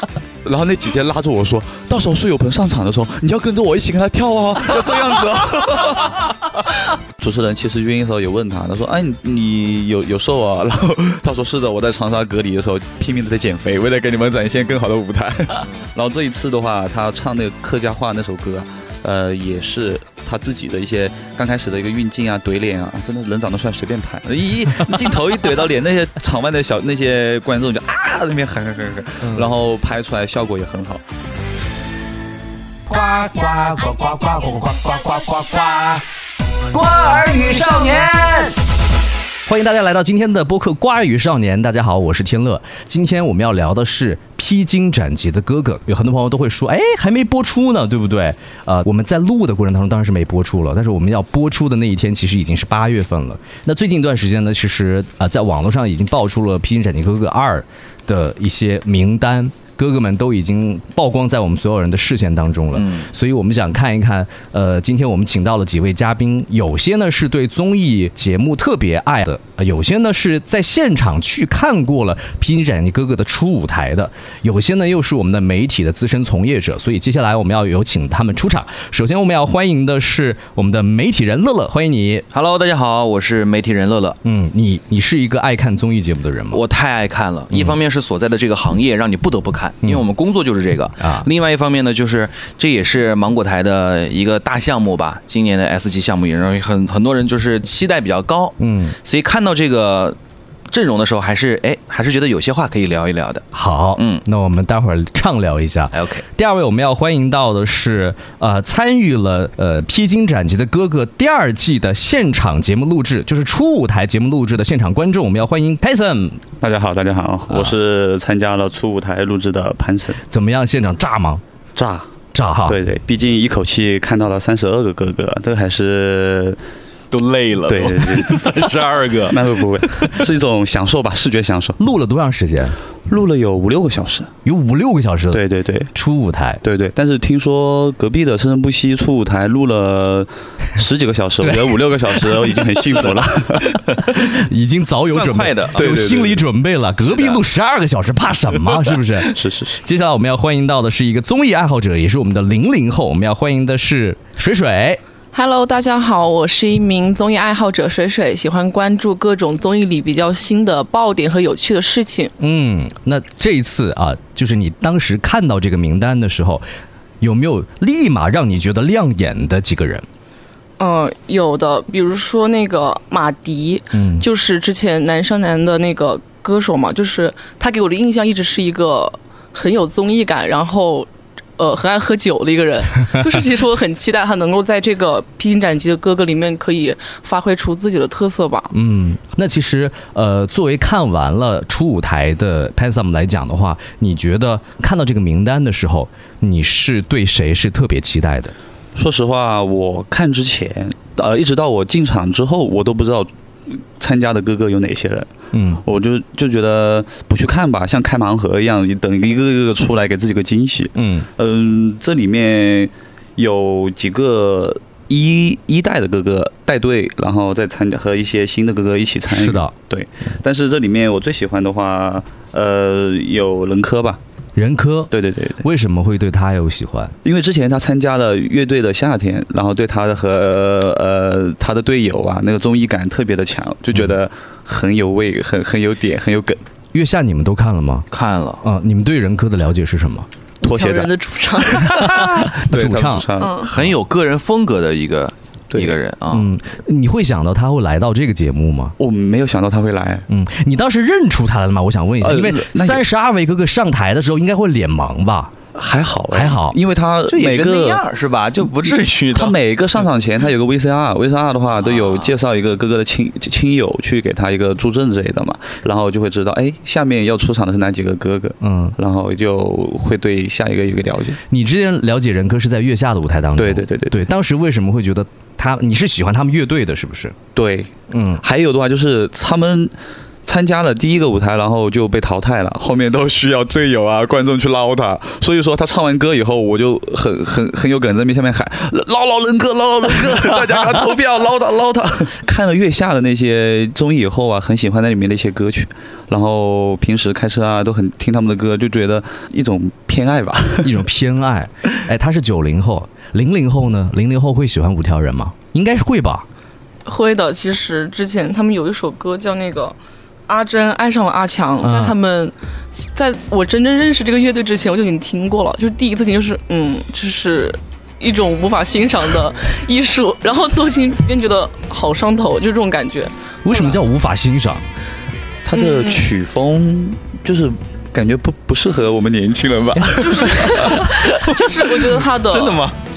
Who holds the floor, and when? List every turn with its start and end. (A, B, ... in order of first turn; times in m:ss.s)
0:00.4-0:06.3 A
0:07.2-0:31.0 A
0:29.2-0:29.5 B
0:32.9-0:36.0 C
0:36.7-0:38.5 B
0:37.2-0:38.0 C
0:39.5-1:22.2 B
1:02.8-1:03.1 D
1:22.3-1:24.2 D
1:24.2-1:26.6 B
1:26.5-1:40.2 D
1:31.0-1:31.3 B
1:38.6-1:39.0 B
1:40.7-1:43.4 D
1:43.5-1:56.4 B
1:44.0-1:44.2 D
1:45.9-1:46.2 D
1:56.6-2:00.2 A
2:00.3-2:01.4 B
2:01.8-2:02.1 A
2:02.3-2:02.8 B
2:02.7-2:06.6 A
2:07.1-2:09.5 D
2:07.7-2:08.6 A
2:09.3-2:11.8 A
2:11.8-2:12.8 B
2:13.1-2:14.3 A
2:14.4-2:15.4 B
2:15.3-2:15.9 A
2:15.9-2:16.6 B
2:16.6-2:23.8 A
2:21.4-2:22.6 B
2:22.9-2:24.0 D
2:24.0-2:35.0 B
2:25.0-2:26.1 D
2:25.8-2:26.4 A
2:27.0-2:27.4 D
2:29.2-2:29.8 A
2:35.3-2:42.3 E
2:42.4-2:46.6 B
2:47.2-2:50.1 B
2:50.8-3:08.7 E
2:53.9-2:54.2 B
3:08.7-3:18.5 B
3:19.0-3:25.3 A
3:25.5-3:25.8 B
3:25.8-3:44.2 A
3:31.0-3:31.3 B
3:39.3-3:39.7 B
3:44.6-3:47.2 B
3:45.1-3:45.7 A
3:47.2-3:56.6 A
3:56.9-3:58.1 B
3:58.1-3:58.6 D
3:58.6-4:00.3 B
4:00.6-4:02.1 E
4:00.6-4:01.1 A
4:01.7-4:03.8 A
4:01.9-4:03.3 B
4:03.4-4:03.7 E
4:03.7-4:06.5 D
4:05.7-4:06.0 A
4:06.3-4:09.0 B
4:09.0-4:10.2 A
4:10.3-4:15.5 B
4:12.2-4:13.0 A
4:15.8-4:18.0 A
4:16.3-4:16.8 B
4:17.3-4:19.6 D
4:18.8-4:31.4 A
4:21.8-4:22.3 D
4:28.6-4:29.0 B
4:31.5-4:37.4 B
4:33.6-4:34.3 A
4:37.6-5:01.0 A
4:38.1-4:38.4 B
5:00.8-5:06.4 B
5:07.0-5:10.0 E
5:10.5-5:24.0 E
5:11.8-5:12.2 B
5:23.6-5:24.8 B
5:25.6-5:32.9 A
5:25.7-5:26.3 E
5:30.2-5:32.9 E